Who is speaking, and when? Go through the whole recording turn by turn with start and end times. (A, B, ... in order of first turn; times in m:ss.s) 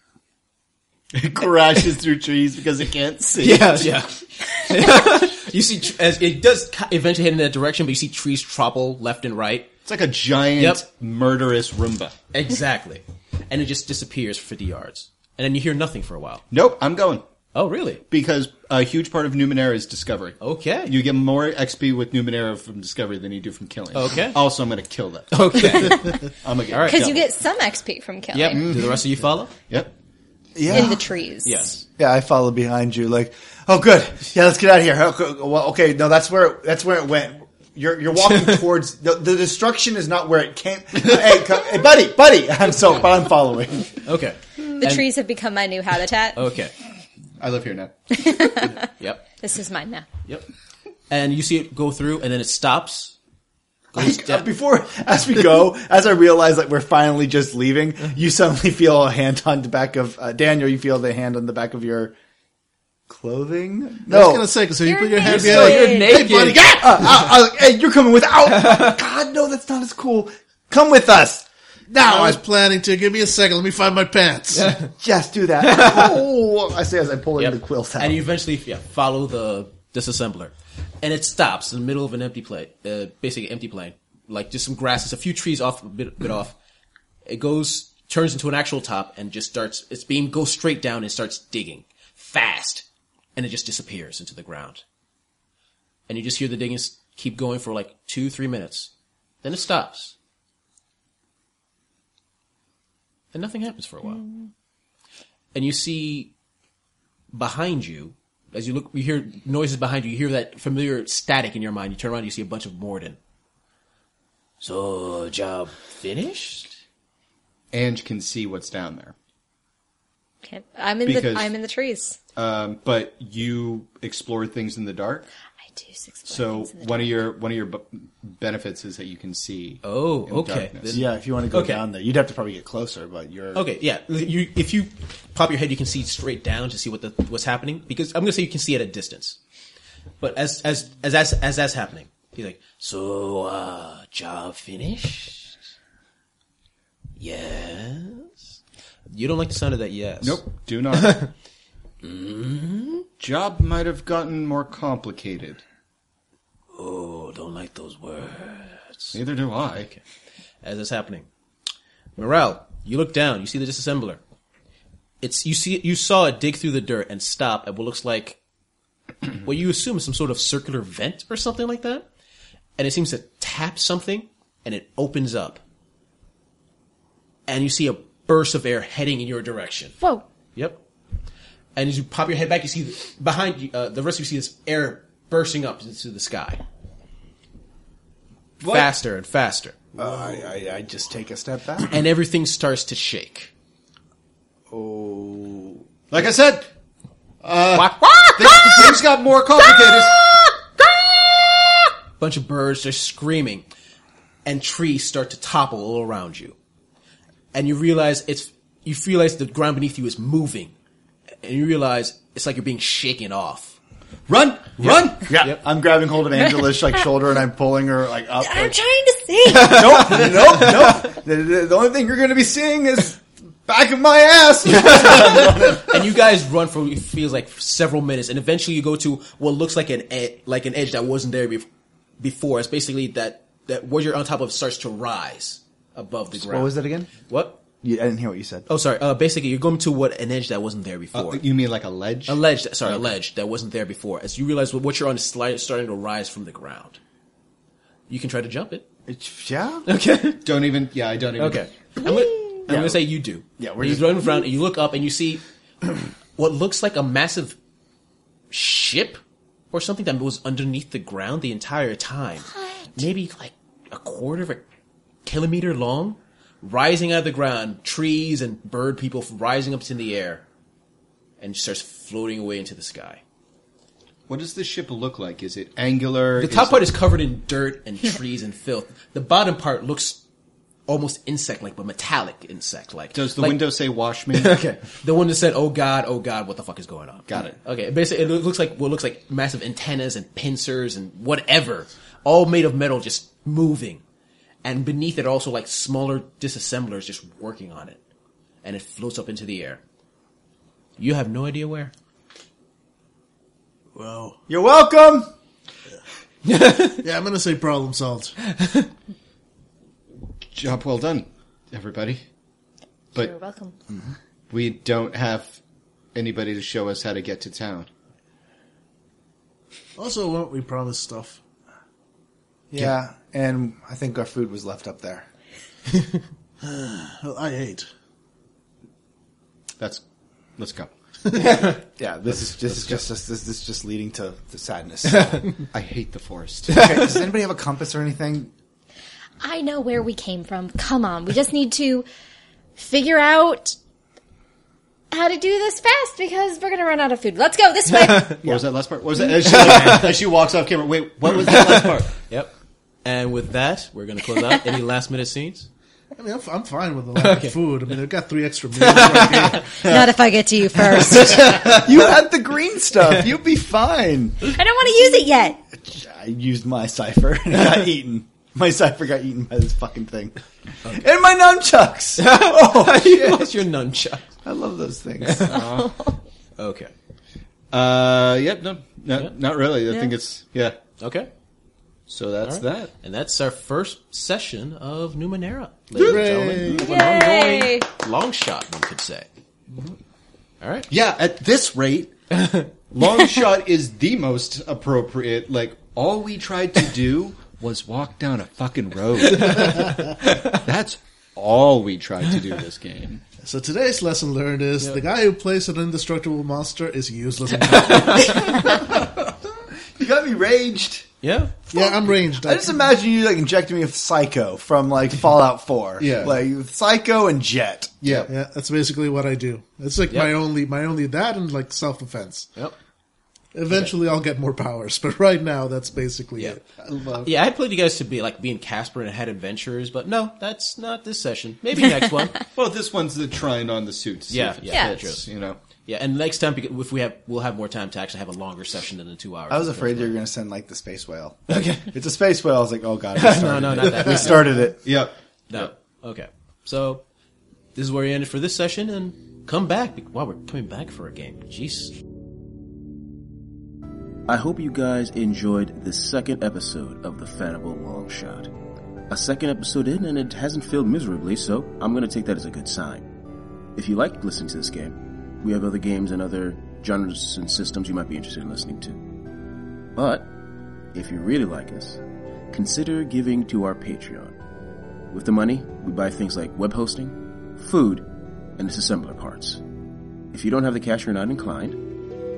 0:01.1-0:04.0 A
0:03.4-0:09.7 B
0:09.8-0:12.1 A
0:12.3-0:16.4 B
0:16.5-0:17.2 A
0:17.5-0:18.0 B
0:18.1-0:27.3 A
0:20.4-0:20.9 B
0:23.9-0:24.4 B
0:25.3-0:26.1 B
0:26.7-0:27.1 B
0:26.8-0:28.6 C
0:28.3-0:29.5 B
0:28.5-0:29.0 A
0:30.5-0:31.1 D
0:30.7-0:31.7 C
0:31.4-0:31.8 B
0:32.0-0:44.0 D
0:44.0-0:45.1 B
0:44.8-0:46.4 C
0:46.4-0:46.7 B
0:47.4-0:48.1 A
0:48.1-0:48.8 C
0:49.0-0:49.2 B
0:49.4-0:50.1 C
0:51.1-0:53.2 B
0:53.9-0:54.5 B
0:53.9-1:02.1 D
1:03.1-1:04.5 D
1:04.1-1:06.9 E
1:04.8-1:06.3 C
1:05.2-1:07.1 B
1:06.7-1:12.4 D
1:08.6-1:08.9 B
1:12.0-1:14.8 E
1:14.5-1:14.9 B
1:15.0-1:18.2 D
1:15.6-1:16.2 B
1:17.4-1:26.5 B
1:27.2-1:32.8 B
1:33.4-1:34.8 B
1:36.1-1:38.9 B
1:39.4-1:40.1 B
1:43.3-1:44.2 B
1:44.2-1:44.5 C
1:45.5-1:46.3 B
1:47.3-1:53.2 B
1:54.6-1:56.7 B
1:57.7-1:59.1 A
2:00.4-2:02.2 C
2:01.0-2:01.5 A
2:02.4-2:05.2 A
2:05.7-2:07.2 C
2:06.3-2:11.0 A
2:09.8-2:11.8 B
2:10.9-2:13.7 D
2:13.5-2:19.4 B
2:20.2-2:25.6 B
2:27.2-2:28.4 B
2:29.1-2:31.3 B
2:30.2-2:31.2 A
2:32.0-2:33.0 B
2:33.2-2:35.6 A
2:36.7-2:39.2 B
2:39.1-2:39.9 A
2:40.6-2:41.3 B
2:42.2-2:44.2 B
2:45.2-2:48.4 B
2:49.3-2:52.1 B
2:52.8-2:55.6 B
2:57.5-3:00.0 B
3:00.5-3:00.8 B
3:01.8-3:06.6 B
3:08.6-3:08.9 A
3:08.6-3:09.8 B
3:10.0-3:12.0 D
3:11.9-3:13.5 B
3:14.7-3:15.8 D
3:16.1-3:16.7 A
3:17.4-3:20.4 A
3:17.7-3:18.9 B
3:22.2-3:23.6 B
3:24.4-3:26.6 B
3:27.5-3:30.7 B
3:31.4-3:33.8 B
3:34.3-3:35.2 A
3:34.8-3:35.6 B
3:35.3-3:38.8 D
3:38.4-3:39.9 C
3:39.5-3:46.1 D
3:39.5-3:41.1 B
3:44.6-3:51.7 B
3:52.2-3:57.6 B
3:56.3-3:57.1 D
3:57.8-3:58.7 D
3:58.7-4:01.4 B
4:01.1-4:03.0 A
4:02.3-4:07.0 B
4:08.1-4:08.8 B
4:09.1-4:09.8 D
4:09.8-4:10.4 B
4:10.4-4:11.7 A
4:11.4-4:17.6 B
4:12.0-4:12.6 C
4:12.7-4:13.0 D
4:13.6-4:14.4 D
4:18.5-4:19.2 B
4:19.7-4:24.6 B
4:25.2-4:30.4 B
4:31.4-4:33.2 B
4:34.3-4:36.9 A
4:36.4-4:40.2 B
4:40.9-4:43.6 B
4:43.1-4:44.6 A
4:44.3-4:54.0 B
4:47.3-4:47.6 A
4:54.6-4:58.0 B
4:58.6-4:59.8 B
5:01.0-5:01.9 B
5:03.9-5:04.4 E
5:04.5-5:05.3 D
5:06.4-5:07.0 B
5:07.0-5:08.3 E
5:08.5-5:08.9 B
5:10.5-5:12.2 A
5:13.1-5:13.8 C
5:14.5-5:15.6 A
5:16.1-5:17.9 A
5:20.0-5:21.4 E
5:22.7-5:25.2 D
5:26.6-5:27.9 E
5:30.6-5:30.9 A
5:31.3-5:31.8 B
5:32.0-5:35.4 D
5:32.6-5:32.9 A
5:35.1-5:35.5 B
5:35.7-5:36.8 A
5:36.7-5:38.5 D
5:36.7-5:37.2 B
5:39.4-5:42.0 C
5:42.8-5:43.8 C
5:45.1-5:48.4 C
5:48.2-5:52.1 A
5:49.4-5:50.1 B
5:51.4-5:52.5 B
5:53.0-5:55.7 B
5:56.2-5:59.8 E
5:57.2-5:57.5 B
5:58.8-5:59.7 B
5:59.8-6:00.1 A
5:59.8-6:01.8 C
6:00.9-6:01.9 A
6:01.6-6:04.5 D
6:04.4-6:05.6 C
6:05.8-6:13.5 D
6:12.2-6:14.2 B
6:14.4-6:15.6 D
6:15.2-6:15.5 B
6:15.3-6:16.0 A
6:15.5-6:16.2 C
6:16.6-6:16.9 B
6:17.7-6:20.8 A
6:21.0-6:21.3 B
6:22.1-6:22.9 A
6:22.4-6:29.3 B
6:26.0-6:26.2 A
6:26.0-6:26.9 E
6:26.8-6:27.9 C
6:30.6-6:30.9 B
6:30.9-6:32.1 A
6:32.3-6:33.4 B
6:32.9-6:43.2 A
6:39.3-6:40.6 B
6:43.4-6:48.6 E
6:47.7-6:48.6 B
6:48.6-6:49.0 D
6:50.0-6:51.1 D
6:51.2-6:51.7 B
6:51.7-6:52.8 E
6:51.8-6:58.3 D
6:56.0-6:56.3 A
6:58.0-6:58.3 A
6:58.3-7:02.5 E
7:00.1-7:00.3 B
7:03.5-7:07.3 E
7:07.2-7:12.4 B
7:12.5-7:15.6 A
7:14.3-7:15.3 B
7:14.7-7:14.9 C
7:15.8-7:20.2 B
7:19.5-7:24.8 D
7:21.5-7:21.9 B
7:23.1-7:24.7 B
7:24.8-7:25.7 A
7:25.5-7:27.0 B
7:27.7-7:31.9 B
7:34.3-7:38.5 F
7:39.1-7:43.1 F
7:43.7-7:49.0 F
7:49.9-7:50.3 F
7:50.9-7:54.4 F
7:55.1-7:58.0 F
7:58.6-7:59.6 F
8:00.3-8:01.8 F